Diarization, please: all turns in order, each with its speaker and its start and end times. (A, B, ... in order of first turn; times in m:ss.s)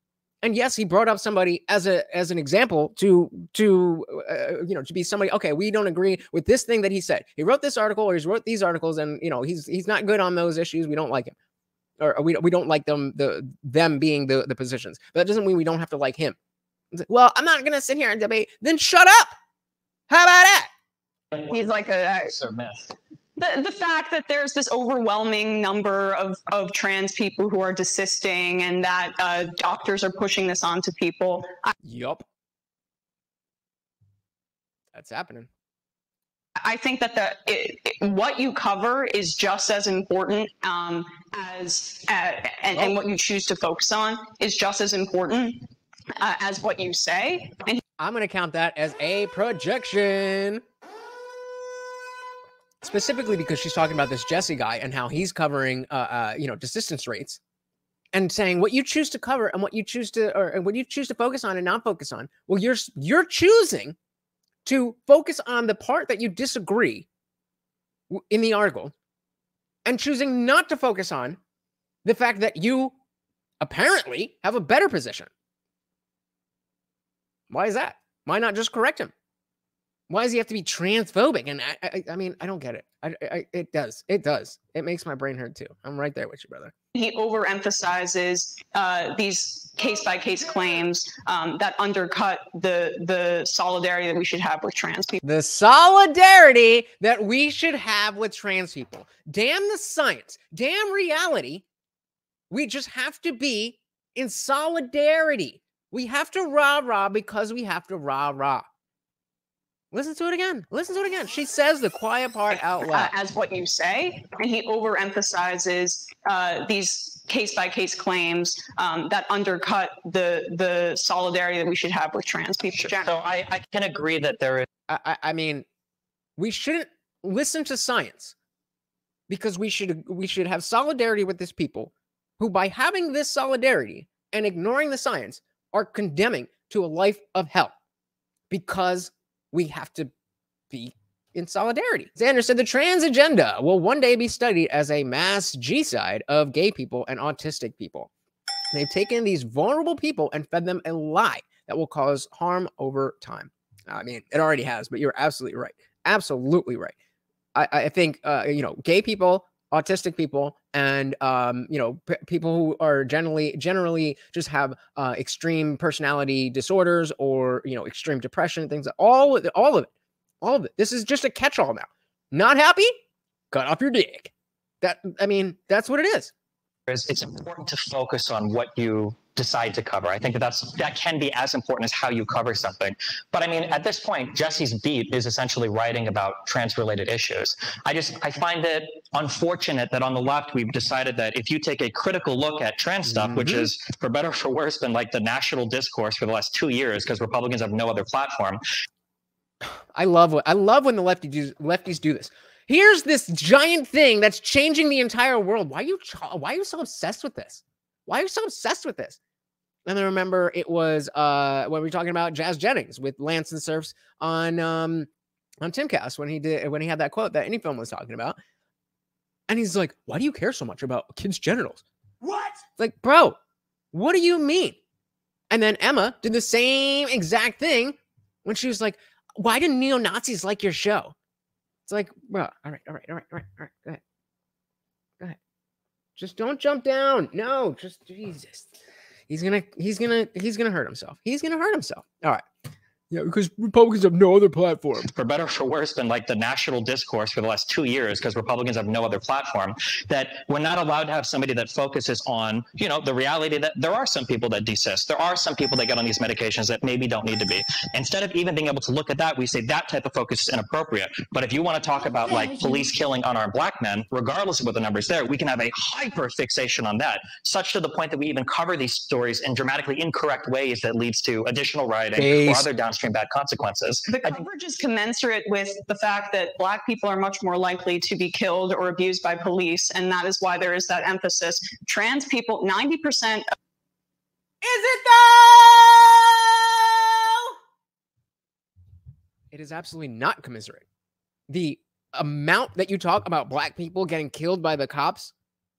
0:00.4-0:11.3 A
0:12.0-0:16.4 A
0:16.9-0:19.3 A
0:20.1-0:20.7 A
0:21.4-0:22.9 B
0:21.4-0:22.3 C
0:23.4-0:31.7 C
0:31.8-0:32.2 A
0:34.9-0:35.5 A
0:36.6-0:45.6 C
0:46.2-0:47.8 C
0:48.0-0:50.6 A
0:52.8-0:57.4 A
0:58.1-1:04.0 A
1:04.6-1:07.1 A
1:08.1-1:08.9 A
1:09.8-1:11.4 A
1:12.0-1:12.9 A
1:13.6-1:15.3 A
1:17.5-1:19.1 A
1:20.1-1:26.7 A
1:26.9-1:35.2 C
1:35.2-1:41.6 A
1:42.5-1:48.6 A
1:49.9-1:53.1 A
1:52.8-2:03.1 C
2:02.7-2:04.7 B
2:04.9-2:05.6 A
2:06.4-2:08.3 A
2:09.3-2:17.7 A
2:18.5-2:20.1 A
2:20.7-2:28.1 A
2:28.7-2:36.9 A
2:37.5-2:49.9 A
2:50.4-2:52.9 A
2:53.5-2:56.3 A
2:56.9-3:18.6 B
3:13.0-3:13.7 A
3:19.9-3:29.2 A
3:29.8-3:35.1 A
3:35.6-3:38.4 A
3:39.5-3:43.4 A
3:43.9-3:44.8 A
3:45.5-3:51.1 A
3:51.8-3:54.0 A
3:56.2-3:58.7 A
3:59.3-4:02.4 A
4:03.1-4:05.1 A
4:05.0-4:34.4 B
4:32.2-4:32.7 A
4:34.1-4:43.4 C
4:44.6-4:47.5 A
4:49.5-4:50.8 A
4:51.5-4:55.3 A